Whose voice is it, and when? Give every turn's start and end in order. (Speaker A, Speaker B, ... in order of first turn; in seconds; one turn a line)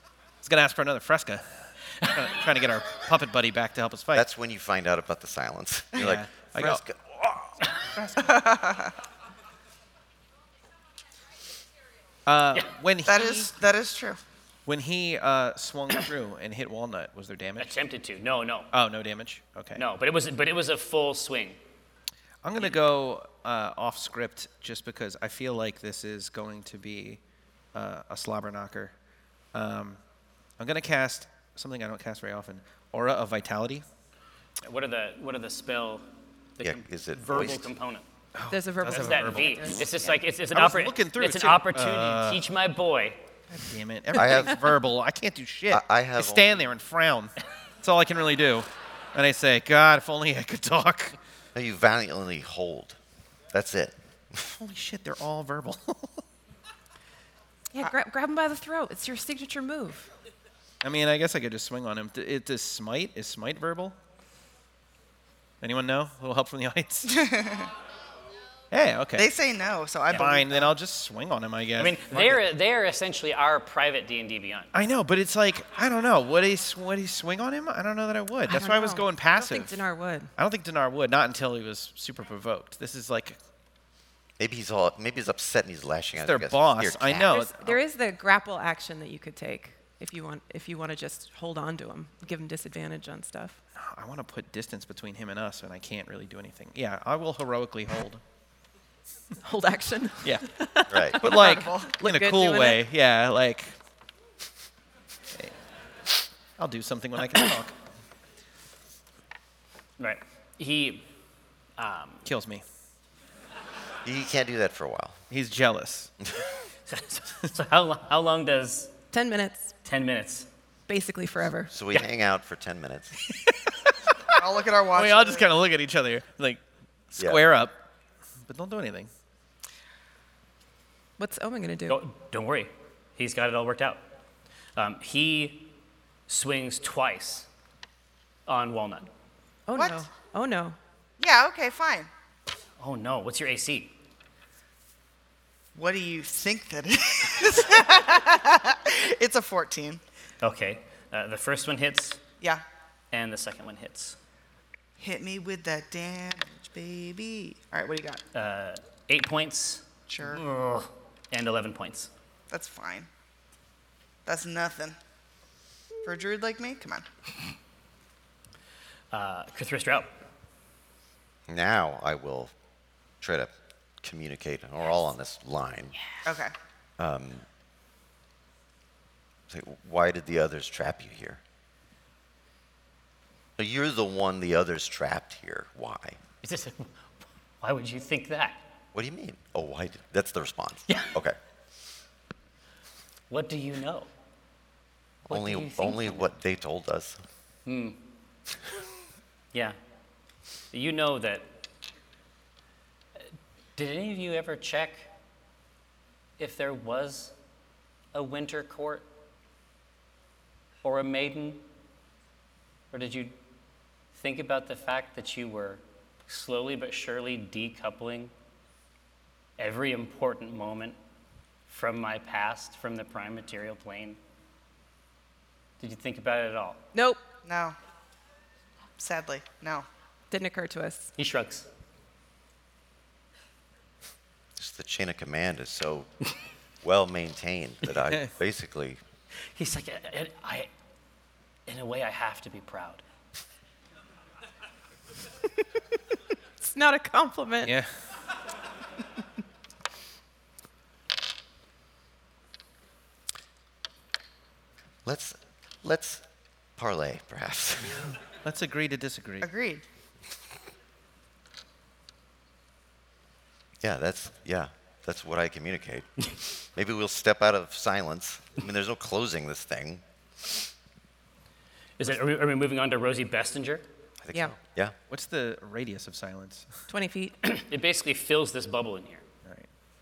Speaker A: 0.4-4.3
Speaker B: 4.1-7.7
Speaker A: 6.0-6.8
Speaker A: 8.0-8.5
Speaker C: 8.2-9.0
Speaker A: 12.3-13.5
Speaker C: 13.1-14.2
Speaker A: 14.7-17.8
Speaker D: 17.6-18.7
Speaker A: 18.7-19.8
Speaker D: 19.8-21.6
Speaker A: 22.4-27.2
Speaker A: 27.7-28.9
Speaker A: 29.5-30.0
Speaker A: 30.6-33.9
Speaker D: 34.6-36.0
Speaker D: 36.6-38.1
Speaker B: 36.6-37.7
Speaker A: 38.4-39.9
Speaker E: 38.5-40.1
Speaker D: 38.9-43.2
Speaker A: 40.5-42.4
Speaker A: 43.5-51.2
Speaker B: 44.2-44.6
Speaker B: 45.7-46.7
Speaker B: 51.5-53.0
Speaker B: 53.5-54.5
Speaker A: 54.5-56.2
Speaker E: 57.7-60.1
Speaker A: 60.8-64.0
Speaker A: 65.6-67.2
Speaker C: 67.1-67.7
Speaker A: 68.7-69.3
Speaker C: 69.2-70.7
Speaker A: 70.1-72.5
Speaker D: 71.8-74.7
Speaker A: 74.7-79.8
Speaker E: 78.5-80.3
Speaker A: 80.4-83.4
Speaker B: 84.4-87.3
Speaker A: 86.2-87.8
Speaker E: 87.2-93.6
Speaker A: 93.8-98.2
Speaker E: 99.4-102.8
Speaker A: 100.2-103.8
Speaker B: 100.9-101.2
Speaker C: 101.2-102.0
Speaker A: 106.6-107.8
Speaker D: 110.0-111.1
Speaker D: 111.8-112.3
Speaker A: 112.2-112.6
Speaker B: 114.0-115.2
Speaker A: 115.3-116.1
Speaker D: 116.9-118.9
Speaker E: 119.1-119.7
Speaker D: 119.8-120.5
Speaker E: 120.9-121.7
Speaker B: 121.7-123.1
Speaker C: 124.3-125.5
Speaker A: 124.9-127.8
Speaker B: 127.2-127.4
Speaker A: 128.5-129.1
Speaker E: 131.2-132.0
Speaker D: 131.9-134.0
Speaker D: 134.8-135.8
Speaker D: 136.3-137.5
Speaker D: 138.5-139.1
Speaker E: 139.7-140.8
Speaker C: 139.8-140.1
Speaker C: 141.2-142.1
Speaker D: 142.8-143.9
Speaker C: 145.8-150.0
Speaker D: 150.4-152.2
Speaker D: 153.1-154.2
Speaker C: 155.0-158.2
Speaker D: 158.3-162.1
Speaker C: 160.1-160.4
Speaker C: 162.5-163.1
Speaker C: 164.3-165.0
Speaker C: 166.0-167.1
Speaker D: 169.1-170.1
Speaker B: 171.5-172.5
Speaker B: 173.2-175.9
Speaker C: 176.2-176.5
Speaker B: 177.0-177.4
Speaker B: 179.5-181.4
Speaker B: 183.6-186.2
Speaker D: 186.4-187.0
Speaker D: 187.6-188.6
Speaker B: 188.9-191.4
Speaker D: 190.9-191.2
Speaker D: 193.3-194.1
Speaker B: 195.3-197.2
Speaker D: 195.3-196.3
Speaker D: 197.7-198.0
Speaker D: 200.7-201.7
Speaker D: 203.8-205.1
Speaker D: 206.4-207.3
Speaker D: 208.1-209.1
Speaker D: 210.8-211.6
Speaker D: 212.9-213.3
Speaker D: 214.2-218.3
Speaker D: 219.6-221.0
Speaker D: 221.7-224.2
Speaker D: 225.8-226.8
Speaker E: 226.9-227.2
Speaker C: 227.4-227.8
Speaker C: 229.0-229.9
Speaker E: 230.3-231.1
Speaker D: 231.2-231.7
Speaker B: 234.6-236.1
Speaker B: 236.8-239.0
Speaker A: 238.1-238.3
Speaker D: 239.6-240.7
Speaker D: 241.7-243.0
Speaker E: 246.6-247.8
Speaker A: 247.6-247.9
Speaker B: 255.1-256.2
Speaker B: 256.8-258.1
Speaker A: 258.4-259.5
Speaker C: 259.4-259.8
Speaker B: 263.8-270.6
Speaker D: 272.0-273.9
Speaker B: 274.2-274.9
Speaker A: 275.1-276.8
Speaker E: 276.9-277.4
Speaker D: 277.4-279.2